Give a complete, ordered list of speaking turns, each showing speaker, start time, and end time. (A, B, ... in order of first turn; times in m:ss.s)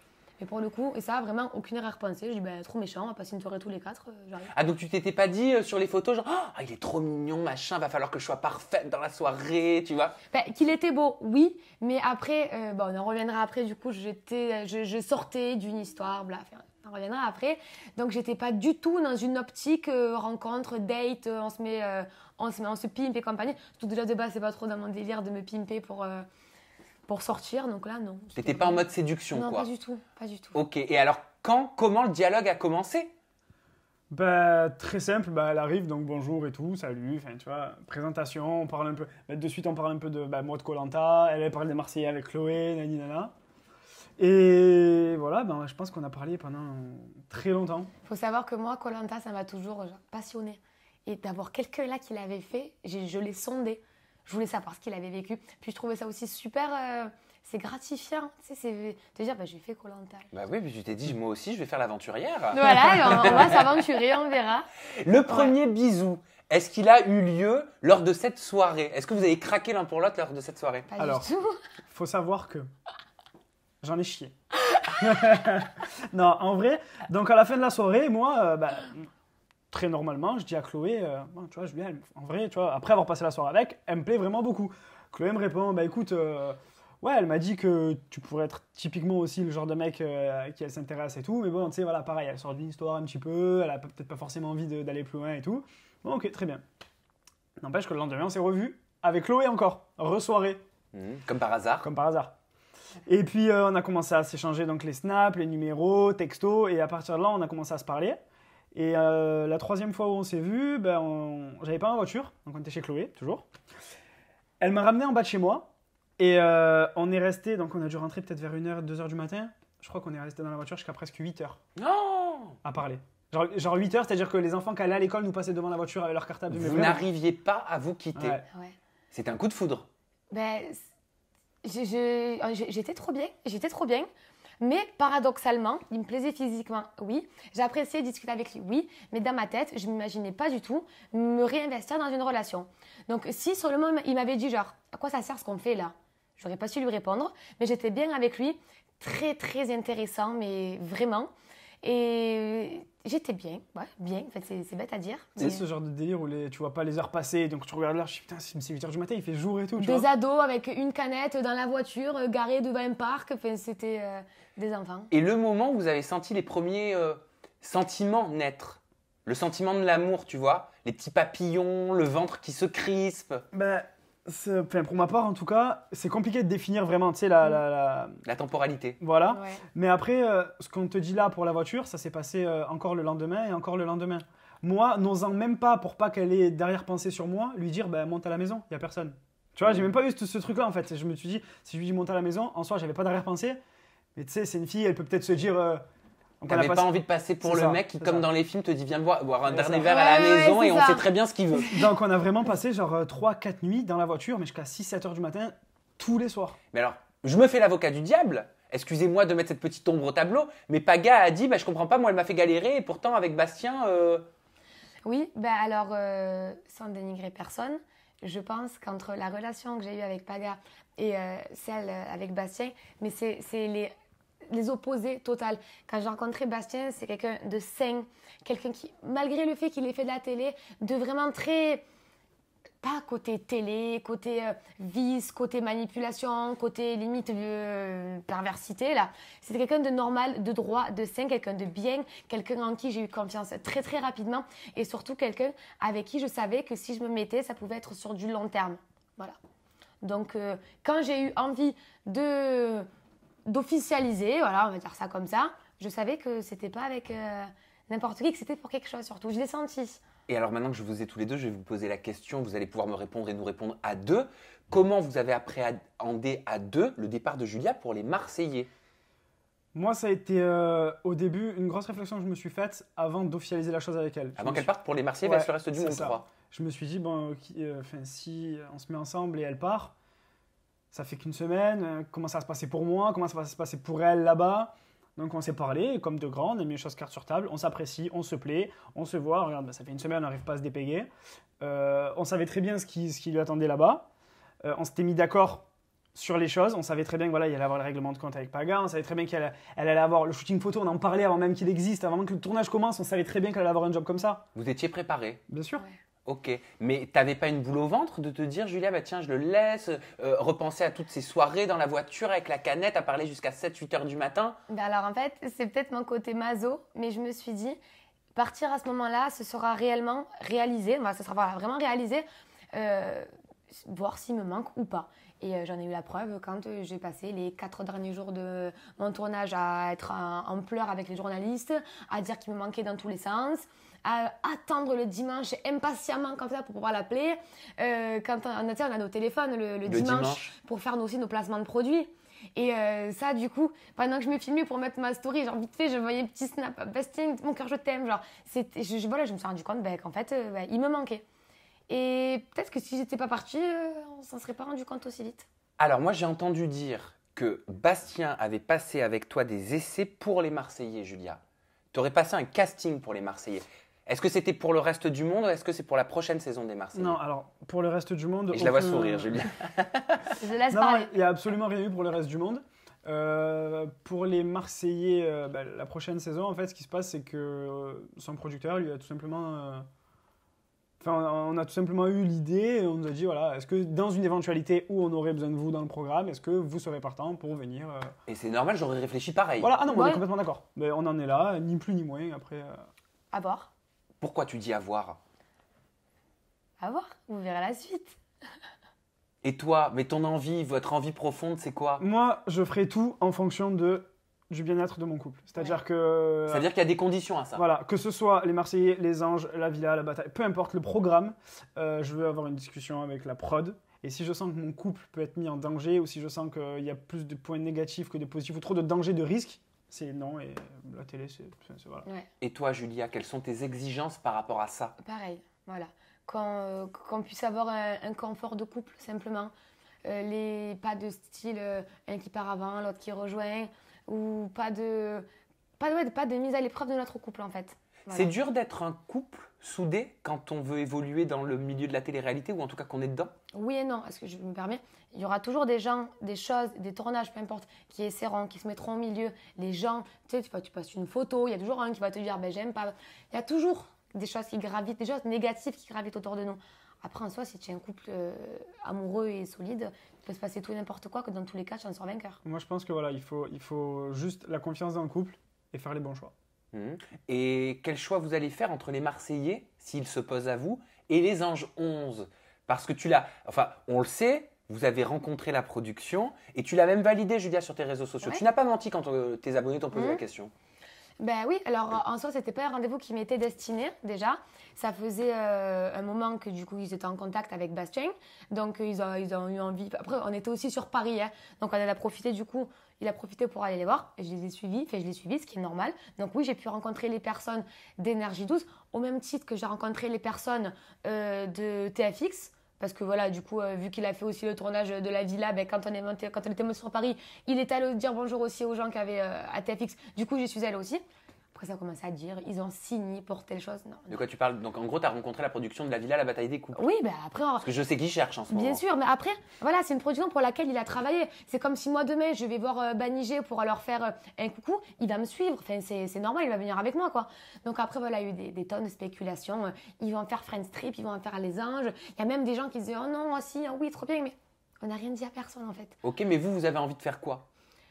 0:00.4-0:04.5 A
0:04.5-0:10.2 B
0:10.3-0:26.3 A
0:27.1-0:30.6 A
0:28.4-0:29.7 B
0:30.5-0:33.1 B
0:34.1-0:43.3 C
0:44.2-0:47.9 C
0:48.1-1:00.3 A
1:00.3-1:03.8 B
1:02.5-1:05.6 A
1:03.0-1:03.4 C
1:05.0-1:10.9 B
1:10.9-1:11.6 A
1:11.0-1:11.3 C
1:11.9-1:12.7 C
1:13.8-1:14.3 C
1:15.0-1:19.1 C
1:19.7-1:36.6 C
1:37.6-1:40.6 C
1:40.9-1:41.9 B
1:41.8-1:42.4 C
1:43.1-1:48.2 C
1:48.7-1:53.5 C
1:54.6-2:01.6 C
2:01.8-2:02.6 B
2:02.6-2:07.0 C
2:06.5-2:08.4 B
2:08.2-2:08.5 C
2:09.1-2:09.9 B
2:10.3-2:10.8 A
2:11.6-2:14.1 A
2:14.6-2:31.3 A
2:31.8-2:35.6 A
2:35.4-2:40.1 C
2:39.8-2:45.1 A
2:45.1-2:53.4 B
2:53.5-2:58.2 C
2:58.2-2:59.0 B
2:59.0-3:13.6 C
2:59.3-2:59.6 A
3:14.2-3:15.8 C
3:16.4-3:18.3 C
3:16.5-3:21.7 B
3:19.5-3:19.9 C
3:19.8-3:21.1 A
3:21.7-3:26.6 C
3:26.7-3:34.3 B
3:35.0-3:43.9 A
3:44.5-3:51.8 A
3:52.8-4:09.4 A
4:10.0-4:12.9 A
4:13.5-4:20.0 A
4:20.3-4:28.7 B
4:29.7-4:34.7 C
4:34.4-4:36.3 B
4:35.2-4:39.9 C
4:40.9-4:51.1 C
4:51.6-4:54.1 C
4:54.6-5:04.4 C
5:04.6-5:05.4 B
5:05.5-5:05.8 C
5:06.3-5:14.6 B
5:14.7-5:17.8 A
5:18.4-5:23.3 A
5:23.8-5:51.2 A
5:39.9-5:40.5 B
5:51.9-5:55.5 A
5:55.8-6:01.4 B
6:01.9-6:07.2 B
6:06.9-6:09.5 C
6:08.5-6:10.4 B
6:10.4-6:11.2 A
6:10.7-6:19.9 C
6:21.0-6:28.1 C
6:28.3-6:29.7 B
6:29.6-6:32.8 C
6:29.9-6:30.2 A
6:33.3-6:33.7 A
6:34.2-6:35.2 B
6:36.8-6:38.2 A
6:39.4-6:42.0 B
6:42.0-6:46.7 C
6:46.5-6:47.6 B
6:47.6-7:02.0 C
7:02.4-7:04.9 B
7:05.0-7:09.5 A
7:10.0-7:15.3 A
7:15.8-7:18.3 A
7:18.1-7:23.3 B
7:23.5-7:42.4 A
7:42.4-7:46.3 C
7:46.7-8:00.5 B
7:59.9-8:00.2 A
8:01.2-8:31.0 A
8:31.5-8:34.2 A
8:34.1-8:36.8 B
8:36.8-8:37.7 A
8:37.6-8:38.8 B
8:38.5-8:56.0 A
8:56.0-8:57.4 B